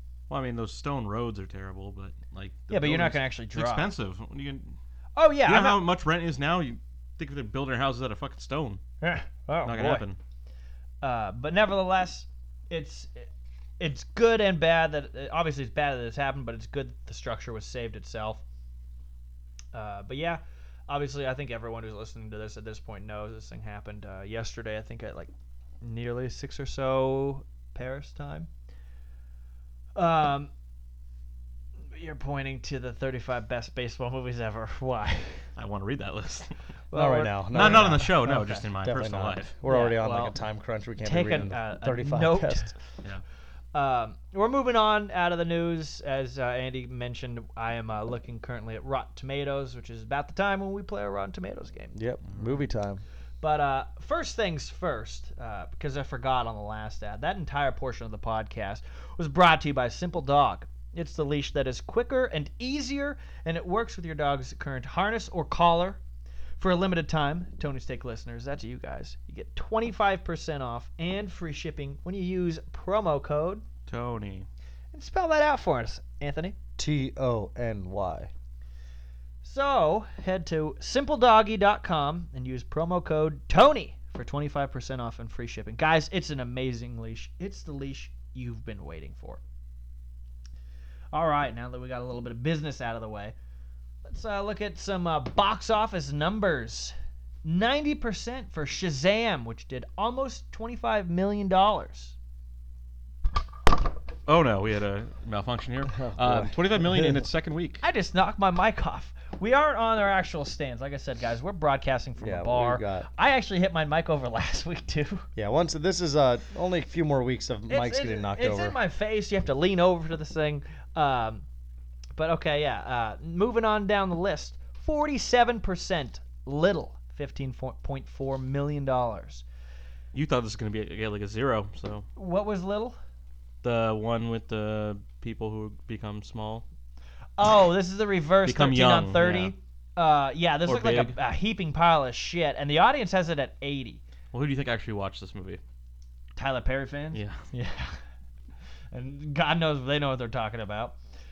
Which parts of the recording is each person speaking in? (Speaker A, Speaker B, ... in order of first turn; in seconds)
Speaker A: 0.3-4.8, 5.5-8.8, 9.6-10.2, 35.6-36.6, 37.5-39.5, 52.3-52.5, 73.9-74.5, 104.3-107.8, 130.1-132.1, 133.6-136.7, 138.4-139.6, 140.7-141.2, 144.3-145.6, 147.1-147.4
Speaker B: 2.7-3.9, 5.2-5.8, 9.0-10.1, 11.0-18.4, 19.7-25.3, 25.8-28.5, 29.9-30.5, 31.9-35.5, 36.9-38.6, 39.7-40.4, 41.0-42.8, 43.7-52.0, 53.4-66.0, 66.6-73.6, 74.9-76.6, 79.4-89.4, 91.1-93.3, 94.0-102.2, 107.8-115.3, 117.7-121.5, 122.2-129.4, 132.2-133.0, 137.4-144.0, 146.4-148.0, 148.9-151.0
Speaker C: 36.9-42.7, 51.9-53.0, 76.8-78.3, 105.9-107.2, 112.2-113.1, 115.4-118.8